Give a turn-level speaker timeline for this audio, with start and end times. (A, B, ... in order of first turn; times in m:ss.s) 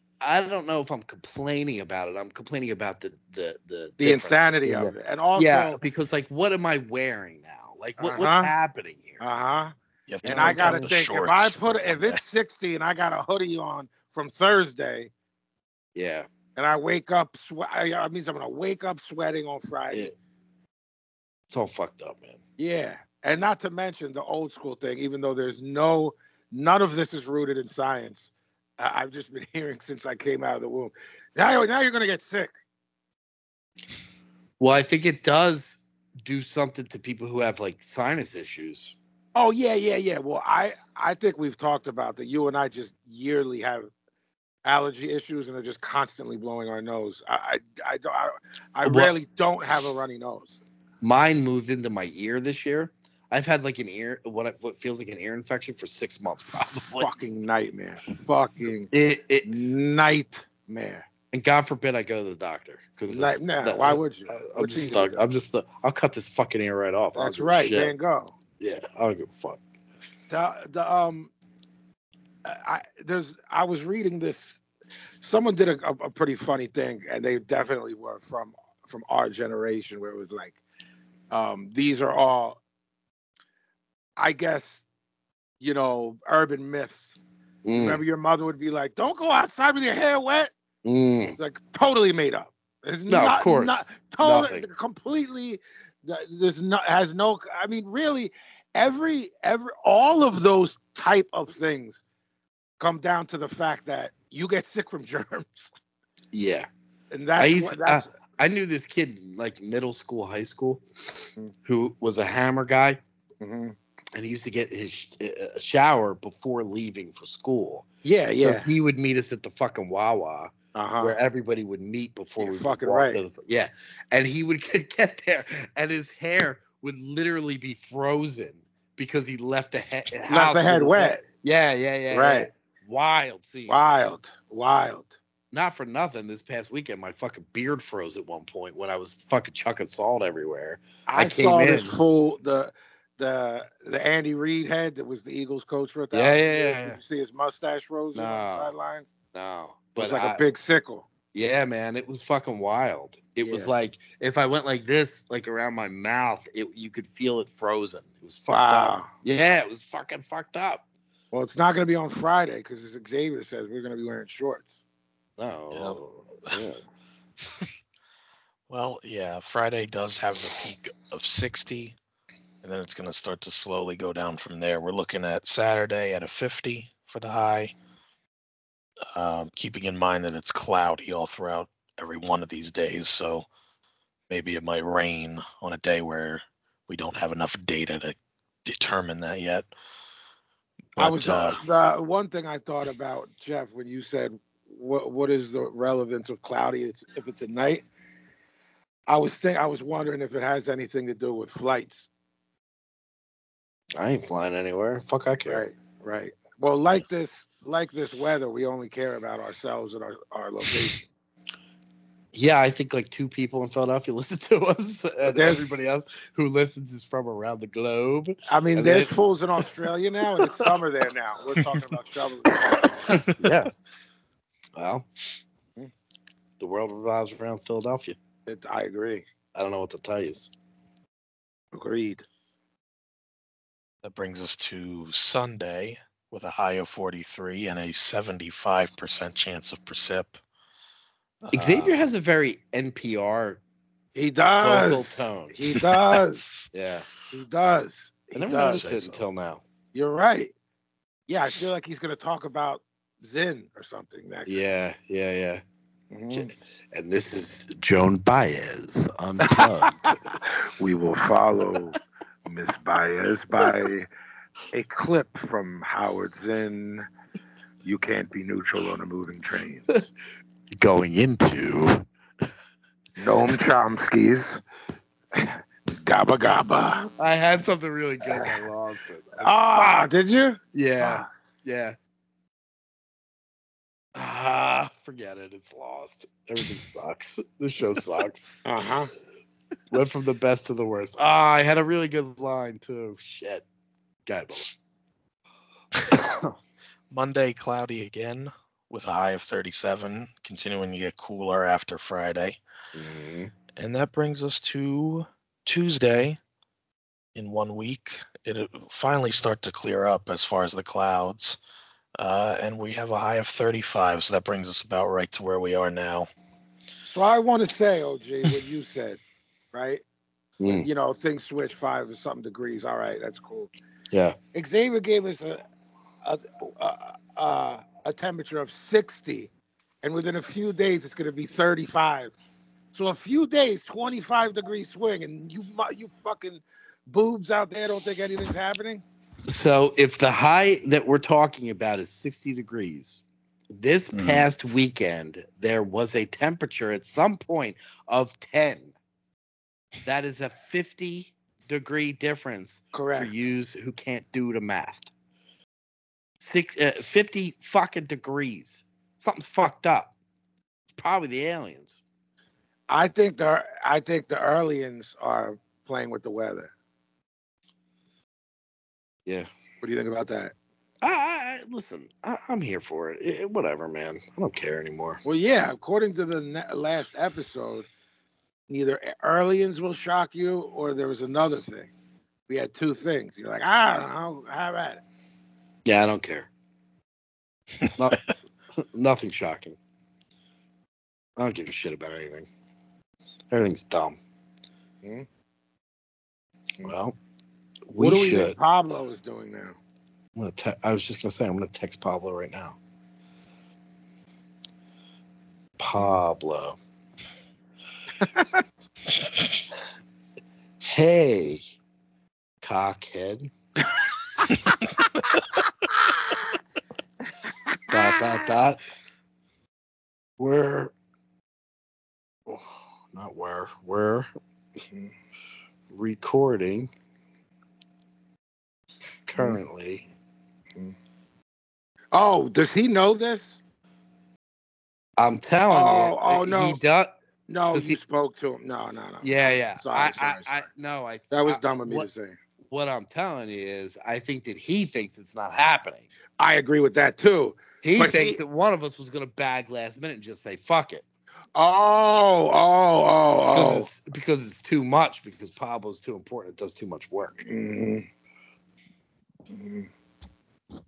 0:00.2-0:09.2 A
0:04.0-0:05.8 B
0:08.0-0:08.5 B
0:09.2-0:09.7 B
0:10.1-0:12.2 C
0:10.2-0:10.9 A
0:10.2-0:15.1 B
0:16.0-0:16.3 A
0:16.6-0:20.1 B
0:21.5-0:22.4 A
0:22.6-0:32.5 B
0:34.6-0:39.0 A
0:39.4-0:43.9 B
0:44.6-0:50.6 B
0:48.8-0:49.1 A
0:51.0-0:57.1 A
0:57.0-0:58.9 B
0:58.9-0:59.5 A
0:59.4-1:01.1 B
1:01.3-1:07.9 A
1:03.1-1:05.2 B
1:07.2-1:08.3 B
1:08.6-1:09.6 A
1:10.3-1:11.3 B
1:12.4-1:14.6 B
1:15.2-1:20.6 B
1:21.3-1:22.6 B
1:24.2-1:24.8 B
1:25.6-1:27.2 B
1:27.6-1:28.0 A
1:27.7-1:30.5 B
1:30.8-1:31.4 A
1:31.4-1:42.0 B
1:33.1-1:34.7 A
1:42.8-1:45.7 B
1:46.3-1:46.7 A
1:47.1-1:48.1 B
1:47.4-1:53.0 A
1:53.4-1:53.8 B
1:54.2-2:13.8 A
1:58.0-1:58.7 B
2:00.8-2:01.2 B
2:02.4-2:03.2 B
2:10.3-2:11.2 B
2:12.1-2:12.5 B
2:13.7-2:15.2 B
2:15.5-2:22.0 A
2:21.1-2:29.1 B
2:26.1-2:27.0 A
2:28.2-2:28.7 A
2:29.3-2:30.4 A
2:30.0-2:31.1 B
2:31.3-2:40.8 A
2:33.4-2:33.7 B
2:38.5-2:39.1 B
2:41.3-2:44.8 B
2:45.4-2:46.8 A
2:45.7-2:46.6 C
2:48.7-2:52.0 C
2:52.6-2:57.7 C
2:59.1-3:03.5 C
3:04.3-3:09.7 C
3:11.0-3:11.6 C
3:11.0-3:17.8 B
3:19.1-3:22.1 B
3:24.0-3:25.6 A
3:25.5-3:31.1 B
3:32.3-3:39.2 A
3:35.3-3:35.6 B
3:38.5-3:43.2 B
3:40.4-3:40.6 A
3:43.3-3:43.7 A
3:44.8-3:45.2 A
3:46.6-3:48.2 A
3:48.5-3:49.2 B
3:49.5-3:50.5 A
3:51.7-3:52.2 B
3:54.0-4:00.4 C
4:01.4-4:02.0 C
4:01.5-4:03.6 A
4:04.2-4:06.4 B
4:04.6-4:05.6 A
4:06.4-4:06.7 C
4:06.7-4:07.1 A
4:07.3-4:08.9 B
4:08.3-4:09.6 A
4:08.6-4:09.2 C
4:09.9-4:10.5 B
4:11.3-4:14.5 B
4:14.5-4:15.6 A
4:16.1-4:16.5 B
4:16.3-4:20.2 A
4:19.5-4:24.1 B
4:24.7-4:27.1 B
4:27.8-4:29.8 B
4:30.7-4:32.0 A
4:33.2-4:34.6 B
4:35.3-4:37.1 B
4:37.2-4:39.9 A
4:38.2-4:38.5 B
4:39.4-4:41.3 B
4:40.7-4:42.0 A
4:44.2-4:48.6 A
4:48.6-4:49.1 B
4:49.9-4:53.6 A
4:54.3-4:54.7 A
4:56.1-4:56.6 A
4:57.1-5:02.6 C
5:03.0-5:03.5 A
5:03.8-5:06.4 C
5:07.4-5:11.6 C
5:12.2-5:16.3 C
5:17.1-5:19.2 B
5:19.7-5:20.0 B
5:20.6-5:20.9 A
5:20.7-5:23.7 B
5:24.1-5:24.4 A
5:24.5-5:25.6 B
5:26.2-5:29.5 B
5:30.0-5:32.3 B
5:32.9-5:39.0 B
5:39.5-5:49.0 A
5:44.1-5:44.5 C
5:50.0-5:55.1 A
5:52.9-5:53.3 B
5:56.4-6:00.1 A
6:00.9-6:02.0 A
6:02.9-6:06.7 B
6:09.8-6:10.6 B
6:11.0-6:15.2 A
6:15.2-6:17.9 B
6:18.7-6:21.9 B
6:22.5-6:25.0 B
6:25.8-6:26.5 A
6:28.0-6:28.2 A
6:28.8-6:29.8 A
6:31.4-6:32.5 A
6:33.5-6:34.2 A
6:36.8-6:37.2 A
6:37.9-6:38.6 A
6:38.0-6:39.8 B
6:40.4-6:42.8 A
6:45.8-6:46.8 A
6:48.2-6:48.6 B
6:50.8-6:51.7 A
6:52.6-6:53.5 A
6:57.9-6:58.8 A
7:00.4-7:00.9 A
7:02.5-7:04.3 A
7:05.9-7:06.9 A
7:09.3-7:10.1 A
7:12.1-7:13.6 B
7:15.2-7:17.2 A
7:15.7-7:16.8 B
7:17.5-7:20.7 B
7:17.7-7:18.0 A
7:19.2-7:22.1 A
7:21.3-7:22.4 B
7:22.7-7:26.1 A
7:26.4-7:28.4 B
7:27.8-7:31.0 A
7:31.6-7:33.9 B
7:33.5-7:37.5 A
7:37.4-7:38.1 B
7:39.5-7:39.9 B